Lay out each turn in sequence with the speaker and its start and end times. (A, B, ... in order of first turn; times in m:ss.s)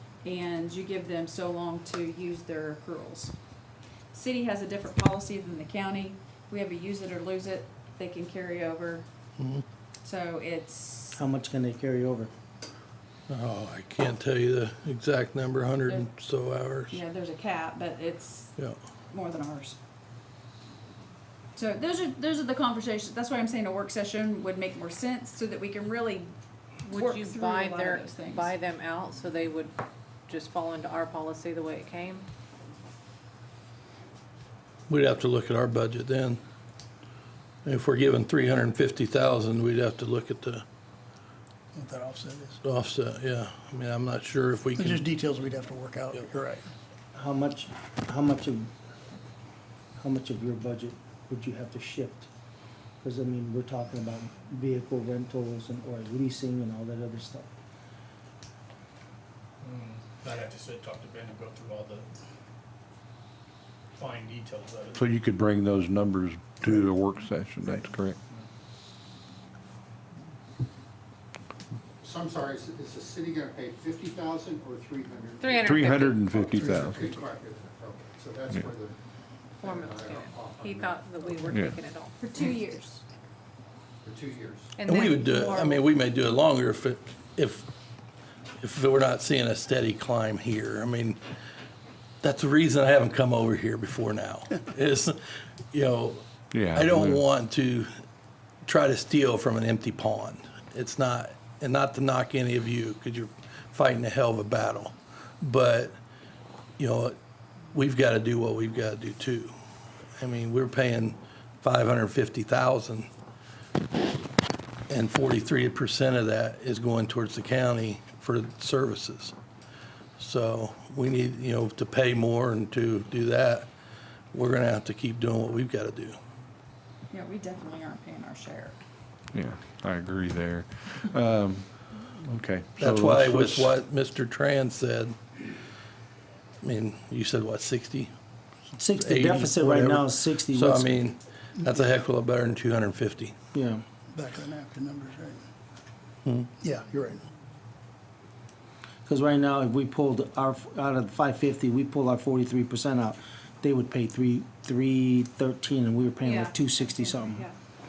0:00.2-0:03.3 A
0:04.1-0:09.0 A
0:09.4-0:09.6 B
0:10.0-0:11.2 A
0:11.1-0:12.3 C
0:13.3-0:17.0 B
0:16.9-0:18.5 A
0:19.1-0:19.8 A
0:21.5-0:26.3 A
0:26.8-0:32.2 D
0:26.9-0:28.5 A
0:34.9-0:36.4 B
0:37.6-0:40.6 B
0:41.7-0:42.6 E
0:42.6-0:45.0 B
0:44.7-0:46.7 E
0:47.1-0:48.7 C
0:50.0-0:52.3 C
0:53.0-0:57.5 C
0:59.6-1:02.1 F
1:04.0-1:05.0 F
1:04.9-1:08.2 G
1:12.0-1:19.0 H
1:15.4-1:16.2 D
1:15.6-1:17.3 G
1:18.5-1:18.7 G
1:19.6-1:21.1 H
1:19.6-1:22.1 D
1:21.5-1:21.8 G
1:22.2-1:23.0 A
1:24.0-1:24.7 H
1:24.8-1:25.8 D
1:24.8-1:27.7 B
1:28.6-1:31.2 B
1:32.2-1:35.2 B
1:35.7-1:37.9 B
1:36.5-1:37.2 G
1:38.6-1:46.0 B
1:46.8-1:47.2 B
1:47.7-1:49.5 B
1:50.2-1:53.1 B
1:54.9-1:59.3 B
2:00.2-2:03.7 B
2:04.3-2:06.2 B
2:07.1-2:08.8 A
2:09.3-2:13.7 G
2:12.8-2:15.1 B
2:16.6-2:18.1 B
2:18.8-2:21.0 C
2:19.0-2:23.3 B
2:23.5-2:23.8 C
2:24.1-2:25.4 E
2:26.2-2:26.5 B
2:26.6-2:27.2 E
2:29.0-2:37.5 C
2:36.2-2:37.5 D